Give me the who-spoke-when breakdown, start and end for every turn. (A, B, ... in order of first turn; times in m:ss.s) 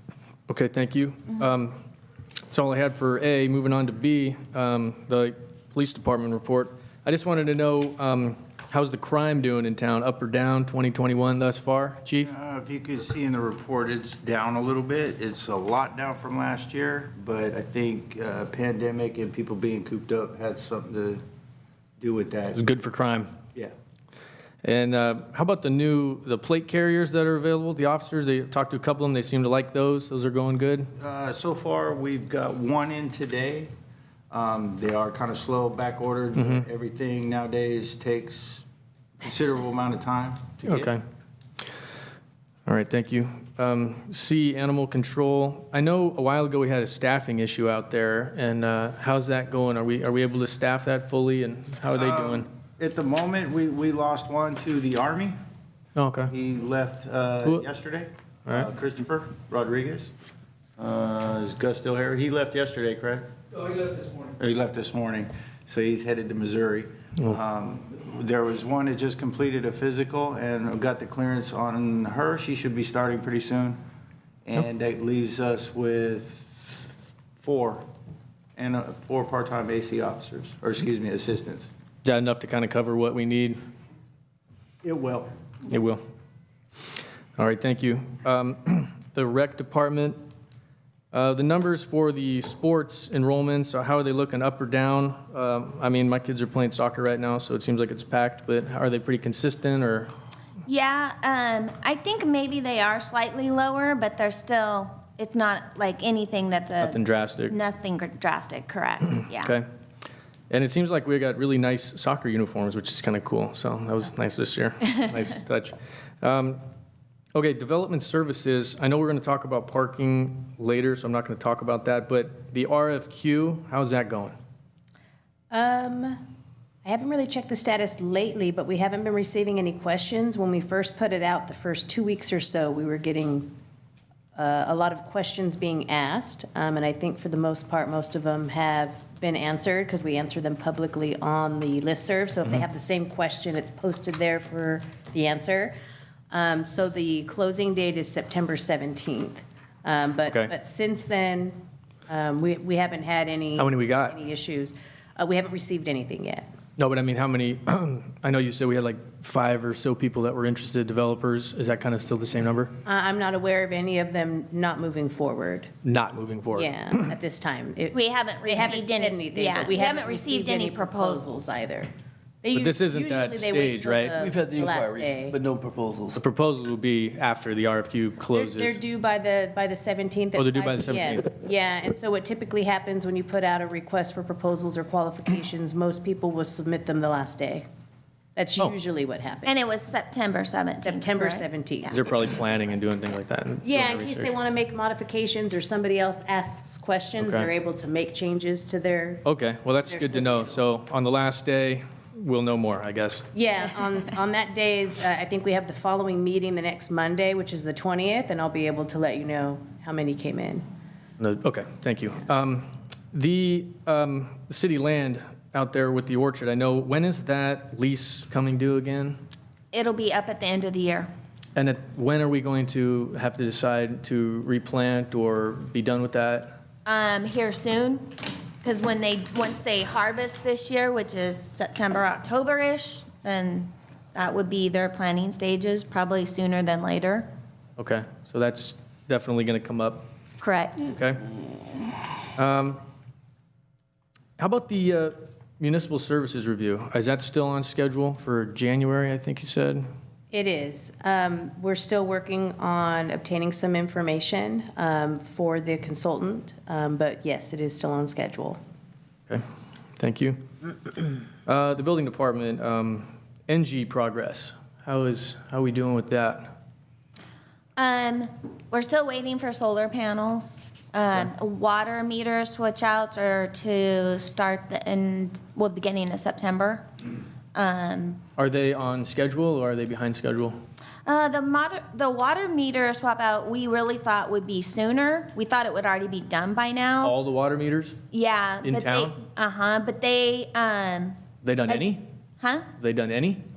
0:00.5-0:01.7 A
0:02.5-0:12.3 A
0:12.2-0:21.2 B
0:22.0-0:22.6 B
0:22.5-0:23.3 A
0:24.6-0:30.9 A
0:31.0-0:33.7 B
0:34.3-0:38.6 B
0:36.4-0:36.6 A
0:39.2-0:40.9 B
0:40.6-0:41.0 A
0:42.6-0:52.5 A
0:52.0-0:55.4 B
0:56.0-0:56.3 A
0:56.3-1:00.1 B
1:00.8-1:13.8 B
1:14.4-1:17.8 B
1:18.6-1:21.7 B
1:22.0-1:23.6 A
1:24.8-1:25.3 B
1:25.7-1:26.0 A
1:27.4-1:30.2 A
1:31.1-1:40.1 A
1:40.6-1:47.0 C
1:46.8-1:47.5 A
1:47.5-1:49.5 C
1:49.3-1:49.6 A
1:50.5-1:56.6 A
1:57.3-2:04.3 A
2:05.5-2:06.2 D
2:06.8-2:13.5 D
2:14.4-2:25.7 D
2:26.3-2:31.6 D
2:32.1-2:36.5 D
2:33.6-2:34.2 A
2:36.8-2:42.7 A
2:42.8-2:45.7 D
2:45.8-2:47.1 A
2:46.5-2:51.9 D
2:47.9-2:51.5 C
2:52.4-2:55.3 D
2:52.5-2:54.1 A
2:54.2-2:56.2 E
2:56.1-2:58.8 A
2:58.3-3:07.6 D
3:00.3-3:01.3 A
3:08.4-3:09.5 D
3:09.4-3:12.1 C
3:10.8-3:11.9 D
3:11.9-3:14.3 A
3:13.6-3:19.2 D
3:17.2-3:17.5 A
3:19.2-3:23.2 A
3:19.9-3:20.6 D
3:23.3-3:30.6 D
3:31.2-3:39.2 A
3:39.7-3:41.1 C
3:41.6-3:46.5 A
3:46.8-3:57.3 C
3:57.8-4:00.1 A
4:00.4-4:00.9 C
4:00.8-4:01.2 A
4:02.4-4:02.8 A
4:04.4-4:09.8 A
4:10.3-4:18.6 D
4:20.0-4:20.4 A
4:21.4-4:26.5 A
4:27.8-4:36.8 C
4:37.5-4:38.2 C
4:38.4-4:40.6 A
4:41.0-4:47.1 C
4:47.0-4:48.0 A
4:48.1-4:51.9 C
4:48.6-4:49.2 A
4:51.4-4:52.0 A
4:52.4-4:52.7 C
4:52.8-4:53.4 A